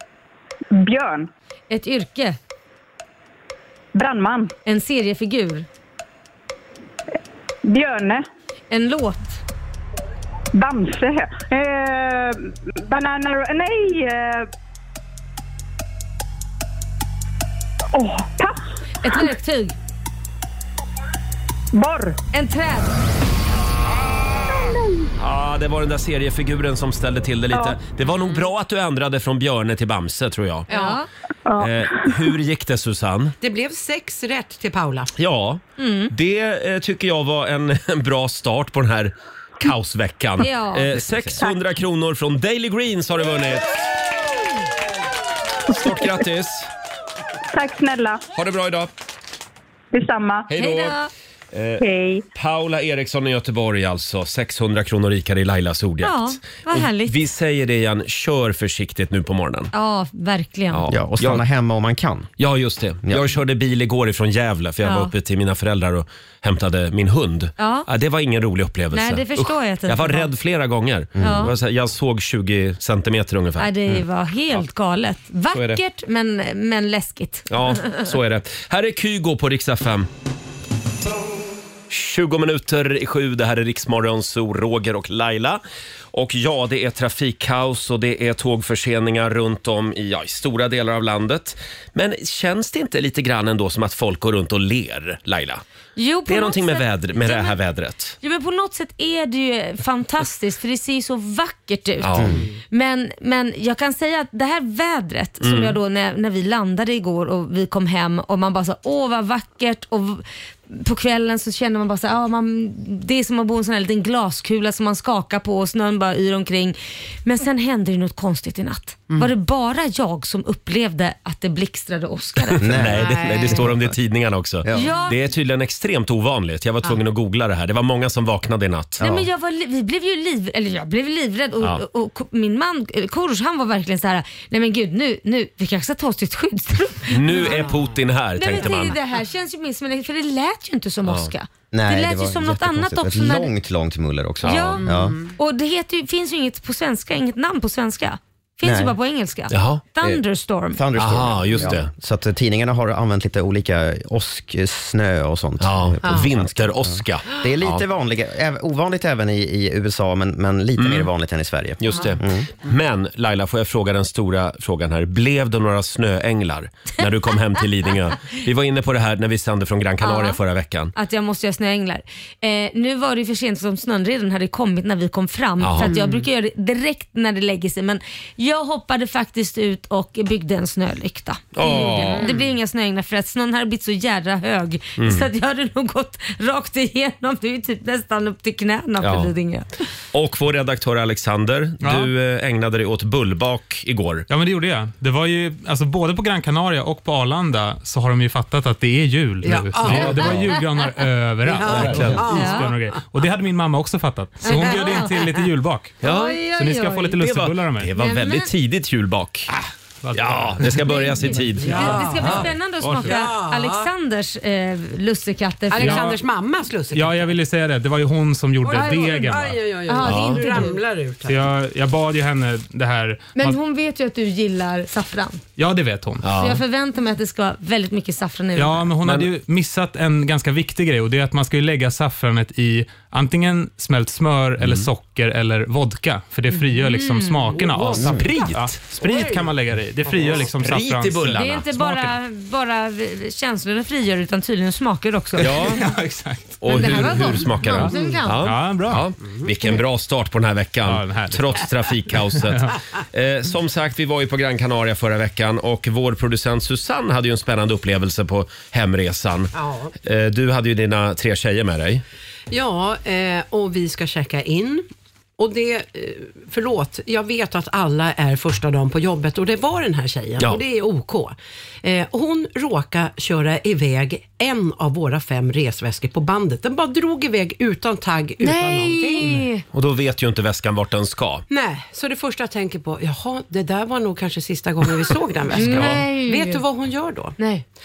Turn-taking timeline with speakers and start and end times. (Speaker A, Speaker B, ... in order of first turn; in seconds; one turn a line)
Speaker A: 0.7-1.3
Speaker B: 1.7-2.4
Speaker A: 4.0-4.5
Speaker B: 4.7-5.7
Speaker A: 7.7-8.2
Speaker B: 8.7-9.4
Speaker A: 10.5-14.5
Speaker A: 17.9-19.3
Speaker B: 19.0-19.8
Speaker A: 21.7-22.2
Speaker B: 22.3-22.9
Speaker A: 24.5-25.1
Speaker C: 25.2-30.7
Speaker A: 27.5-27.8
Speaker D: 30.7-31.0
Speaker B: 30.7-31.1
Speaker A: 31.5-32.4
Speaker C: 31.6-33.4
Speaker D: 33.4-35.1
Speaker C: 35.2-43.9
Speaker B: 35.8-36.1
Speaker B: 40.4-41.5
Speaker C: 45.7-46.7
Speaker A: 47.5-48.2
Speaker C: 48.4-48.9
Speaker A: 49.9-50.5
Speaker C: 50.5-51.0
Speaker B: 50.5-51.1
Speaker C: 51.5-51.8
Speaker A: 51.8-52.2
Speaker C: 52.4-59.7
Speaker B: 56.0-57.1
Speaker B: 59.7-60.8
Speaker C: 60.7-61.4
Speaker E: 60.9-62.3
Speaker C: 62.4-73.7
Speaker B: 64.8-65.1
Speaker B: 67.6-67.9
Speaker B: 68.9-70.3
Speaker E: 71.2-71.5
Speaker B: 71.2-71.5
Speaker B: 73.6-78.1
Speaker C: 75.5-75.8
Speaker C: 77.5-80.1
Speaker C: 81.9-85.6
Speaker C: 86.1-95.6
Speaker B: 96.0-97.6
Speaker C: 96.3-98.2
Speaker B: 98.2-122.7
Speaker C: 102.0-102.4
Speaker E: 102.2-102.5
Speaker C: 105.4-105.8
Speaker C: 122.5-129.2
Speaker E: 122.6-123.9
Speaker D: 123.0-123.6
Speaker E: 124.6-124.9
Speaker B: 124.7-125.2
Speaker B: 129.0-137.7
Speaker C: 137.1-139.0
Speaker D: 137.4-137.9
Speaker B: 138.4-143.5
Speaker C: 141.1-141.3
Speaker E: 141.7-145.2
Speaker C: 144.4-144.8
Speaker B: 144.4-150.8
Speaker D: 144.8-145.3
Speaker E: 148.6-148.9
Speaker C: 149.5-149.8
Speaker E: 150.7-162.5
Speaker C: 151.0-151.9
Speaker C: 155.6-157.8
Speaker C: 160.8-161.1
Speaker C: 161.8-170.9
Speaker B: 170.0-170.4
Speaker B: 170.9-189.7
Speaker C: 175.6-175.9
Speaker D: 175.8-176.2
Speaker C: 181.6-182.3
Speaker D: 181.7-182.3
Speaker C: 185.0-185.3
Speaker C: 189.0-189.3
Speaker C: 190.1-194.3
Speaker F: 191.8-192.1
Speaker F: 194.3-206.0
Speaker D: 199.4-200.6
Speaker C: 199.9-200.2
Speaker B: 199.9-200.9
Speaker D: 201.4-203.0
Speaker C: 201.7-202.2
Speaker B: 202.2-202.7
Speaker B: 204.4-205.2
Speaker D: 204.5-205.1
Speaker B: 206.0-207.2
Speaker C: 206.0-206.4
Speaker F: 206.5-207.9
Speaker C: 207.2-209.5
Speaker B: 208.0-208.5
Speaker F: 210.0-211.0
Speaker C: 210.1-212.4
Speaker B: 210.8-216.1
Speaker D: 211.6-213.9
Speaker D: 215.7-217.3
Speaker F: 215.8-216.2
Speaker F: 216.9-219.6
Speaker D: 218.6-221.5
Speaker B: 219.9-220.8
Speaker C: 220.1-220.4
Speaker F: 221.2-223.6
Speaker B: 223.4-225.4
Speaker F: 225.6-226.3
Speaker C: 226.2-226.6
Speaker B: 226.3-228.9
Speaker F: 228.6-242.1
Speaker C: 234.6-234.9
Speaker B: 236.8-237.5
Speaker D: 237.5-238.1
Speaker E: 238.0-238.2
Speaker C: 238.2-238.7
Speaker D: 238.9-240.5
Speaker C: 240.6-241.7
Speaker B: 241.3-245.7
Speaker C: 245.4-245.8
Speaker F: 245.4-249.1
Speaker C: 246.6-259.5
Speaker B: 246.7-248.5
Speaker F: 250.8-252.8
Speaker D: 259.5-259.9
Speaker C: 260.0-262.0
Speaker D: 262.5-264.9
Speaker D: 265.4-279.4
Speaker B: 278.4-279.6
Speaker C: 279.7-281.4
Speaker D: 281.5-287.4
Speaker B: 285.5-286.6
Speaker C: 285.6-286.0
Speaker B: 287.4-287.6